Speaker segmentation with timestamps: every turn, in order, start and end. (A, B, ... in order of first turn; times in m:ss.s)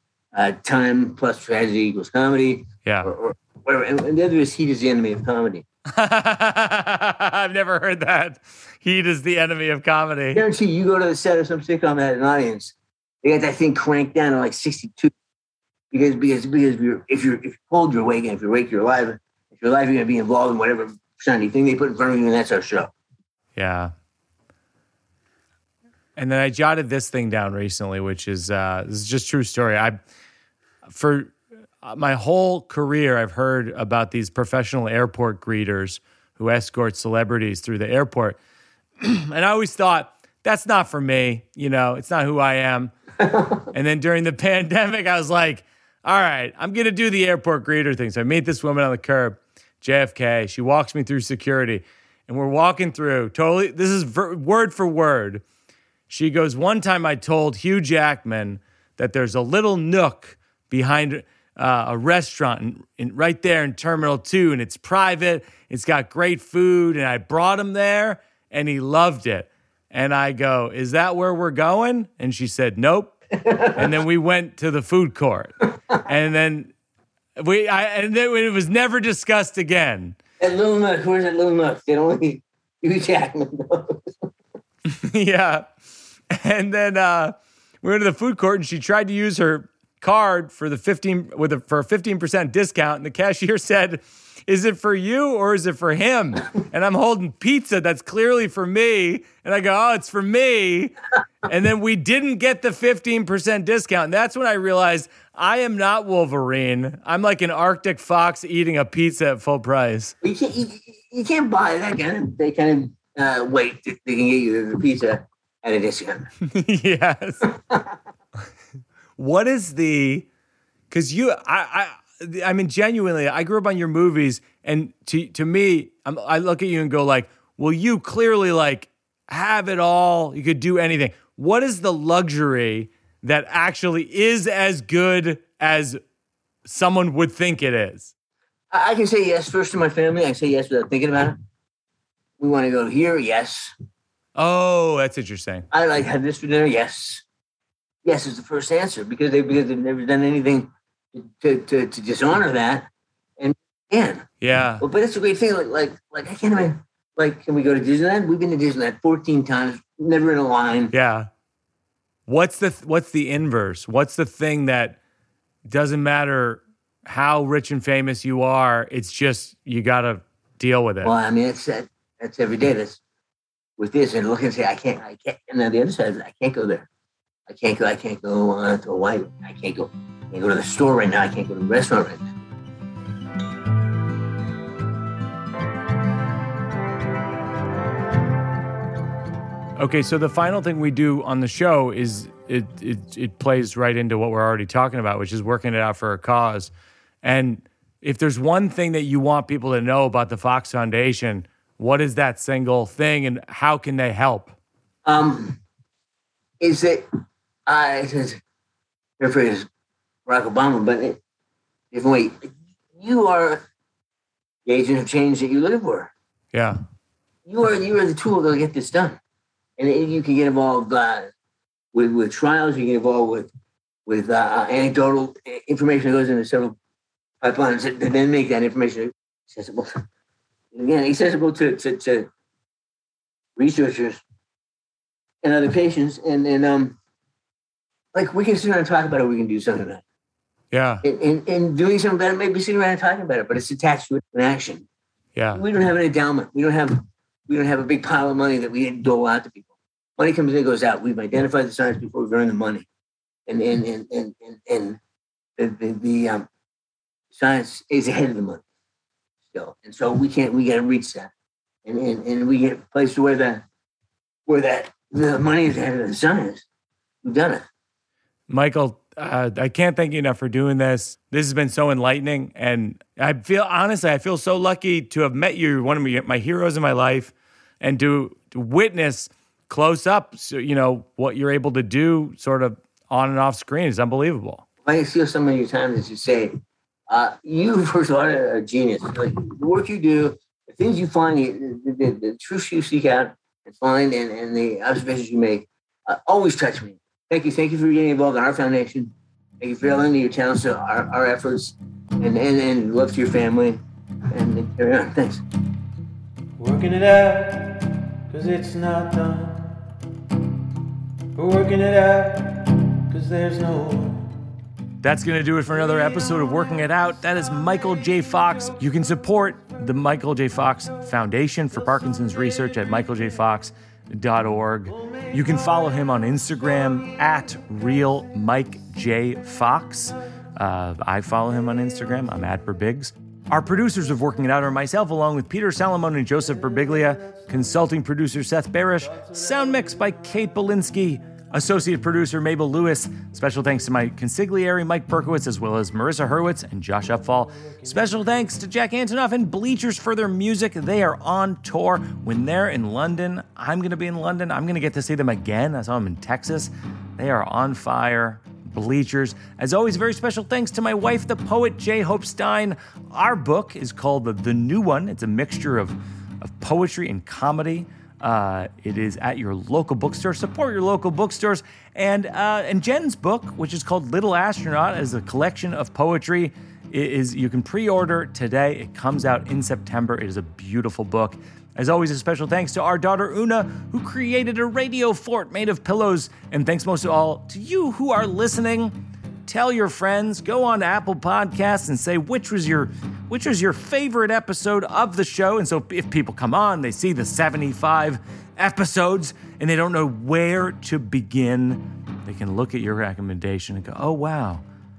0:00.3-0:05.6 A
0:02.8-0:03.1 B
0:05.9-0:10.4 B
0:10.3-0:15.1 A
0:15.9-0:22.9 A
0:23.6-0:23.9 B
0:26.2-0:30.0 B
0:30.8-0:38.4 B
0:39.0-0:42.9 B
0:43.2-0:43.7 A
0:43.7-0:55.4 B
0:56.1-1:13.1 B
1:13.3-1:13.9 A
1:13.8-1:16.7 B
1:17.4-1:20.2 B
1:20.4-1:24.3 A
1:24.9-1:25.7 B
1:26.3-1:40.9 B
1:41.4-1:50.1 B
1:50.2-1:56.3 A
1:56.4-1:57.5 B
1:57.7-1:57.9 A
1:59.2-2:00.3 B
2:00.9-2:16.0 B
2:16.6-2:18.1 B
2:18.7-2:21.4 A
2:22.4-2:23.7 A
2:24.4-2:25.7 B
2:25.7-2:27.2 A
2:28.0-2:32.9 A
2:33.4-2:34.3 A
2:34.4-2:34.8 B
2:34.8-2:40.9 A
2:40.9-2:41.3 B
2:42.3-2:45.0 B
2:45.7-2:51.1 B
2:51.0-2:53.0 A
2:53.8-2:56.9 A
2:57.5-3:02.2 A
3:09.8-3:16.7 B
3:17.2-3:24.5 B
3:25.0-3:25.6 A
3:26.6-3:27.0 A
3:27.7-3:28.4 A
3:29.2-3:29.7 A
3:30.3-3:31.2 A
3:31.9-3:33.6 A
3:34.7-3:36.1 A
3:36.5-3:36.8 B
3:37.4-3:39.2 A
3:39.8-3:41.3 A
3:41.9-3:43.5 A
3:44.1-3:46.8 A
3:47.4-3:49.9 A
3:50.7-3:52.3 A
3:53.6-3:54.2 A
3:55.4-3:57.0 A
3:58.1-4:00.0 A
4:00.7-4:01.0 B
4:01.0-4:04.9 A
4:05.3-4:05.6 B
4:05.5-4:12.9 A
4:13.5-4:15.0 A
4:15.6-4:16.5 A
4:17.3-4:18.6 A
4:19.5-4:21.3 A
4:21.8-4:23.6 A
4:24.5-4:26.7 A
4:27.2-4:27.6 A
4:28.5-4:44.6 B
4:44.8-4:46.6 A
4:47.1-5:05.4 A
5:06.6-5:09.8 C
5:11.3-5:14.4 C
5:15.0-6:44.6 B
5:47.6-5:47.9 C